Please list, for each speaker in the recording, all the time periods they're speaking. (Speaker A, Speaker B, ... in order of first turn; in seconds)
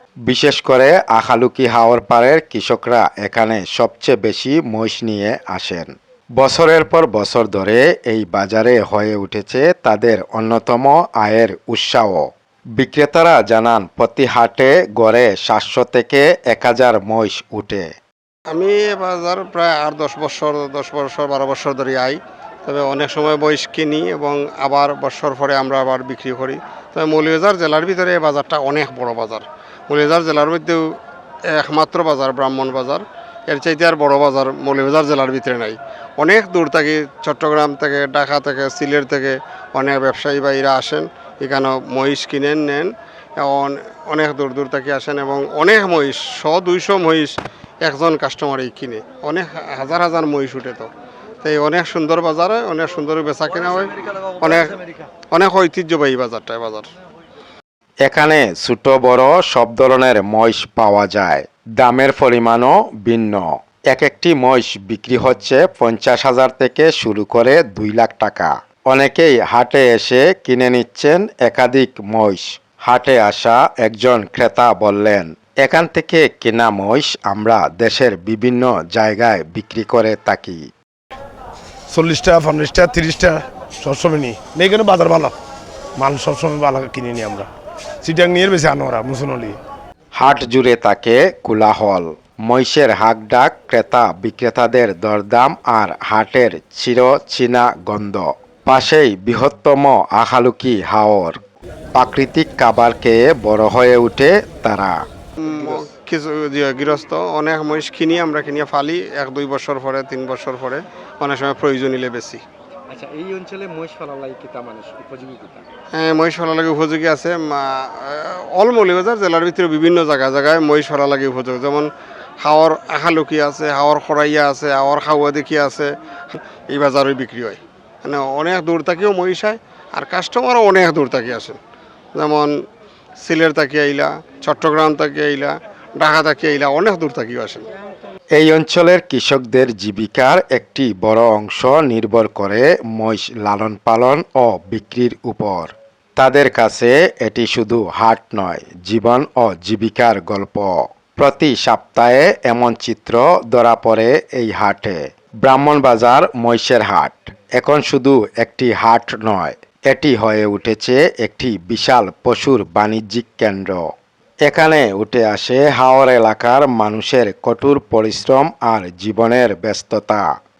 Speaker A: 0.3-12.3, 12.8-17.9, 58.0-80.6, 90.2-101.4, 101.9-105.0, 138.3-163.8, 164.4-170.2
Speaker B: 18.5-50.9, 51.4-56.9, 105.4-112.4, 115.9-131.6, 132.2-132.5, 133.2-137.7
Speaker C: 81.9-85.4, 86.0-87.5, 88.0-89.6
Speaker D: 112.9-115.7